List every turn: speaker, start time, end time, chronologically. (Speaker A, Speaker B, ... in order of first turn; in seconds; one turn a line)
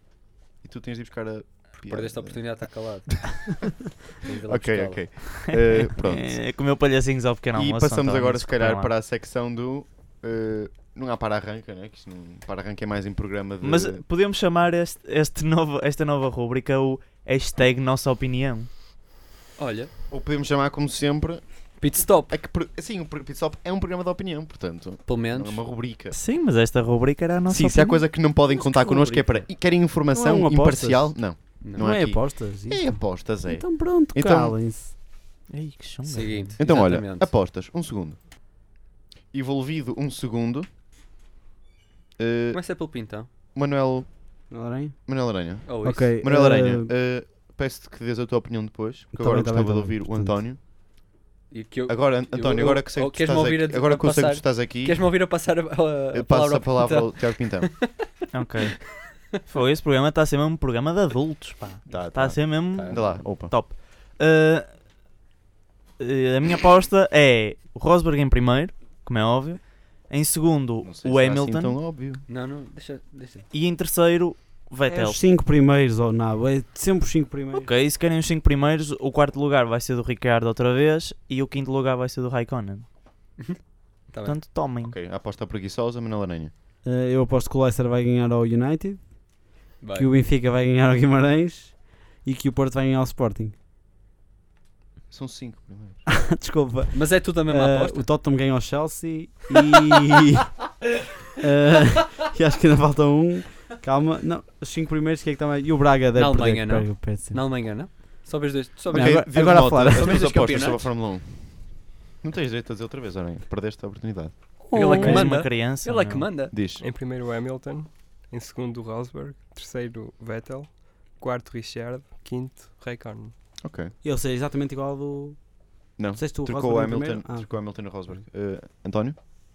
Speaker A: 0.6-2.4
Speaker B: 1.8-3.4
Speaker A: 3.1-3.9
Speaker B: 4.2-5.2
Speaker A: 4.5-6.4
Speaker C: 5.6-8.9
Speaker A: 7.5-14.0
Speaker C: 13.6-18.7
Speaker B: 19.6-19.9
Speaker A: 20.1-26.1
Speaker B: 21.8-22.3
Speaker B: 25.0-25.6
Speaker C: 26.1-29.4
Speaker A: 27.5-34.5
Speaker D: 28.9-29.3
Speaker D: 30.1-34.9
Speaker C: 35.5-36.6
Speaker B: 36.0-37.3
Speaker A: 36.6-38.2
Speaker A: 39.3-40.7
Speaker A: 42.2-42.6
Speaker B: 42.5-43.3
Speaker A: 43.5-44.5
Speaker D: 44.5-45.0
Speaker A: 45.0-50.6
Speaker B: 45.6-46.1
Speaker D: 45.8-46.9
Speaker D: 49.1-50.4
Speaker B: 51.5-58.1
Speaker A: 51.9-55.1
Speaker A: 56.1-57.7
Speaker C: 58.3-64.7
Speaker A: 61.9-63.5
Speaker B: 62.7-63.2
Speaker C: 66.0-71.8
Speaker A: 70.8-72.2
Speaker B: 72.3-73.5
Speaker C: 73.5-75.2
Speaker D: 74.8-77.7
Speaker C: 77.6-82.8
Speaker B: 83.4-84.3
Speaker C: 84.2-84.9
Speaker A: 84.8-86.5
Speaker D: 86.8-89.0
Speaker B: 89.8-90.1
Speaker D: 89.9-93.5
Speaker A: 95.1-96.0
Speaker D: 96.1-100.5
Speaker B: 96.9-98.0
Speaker D: 101.4-107.4
Speaker B: 106.1-110.9
Speaker D: 108.9-110.3
Speaker A: 108.9-114.5
Speaker D: 114.6-115.4
Speaker B: 114.7-116.5
Speaker C: 114.7-116.3
Speaker A: 116.5-116.8
Speaker E: 116.8-123.3
Speaker A: 123.6-123.9
Speaker D: 124.0-125.5
Speaker A: 126.0-129.2
Speaker D: 126.1-127.5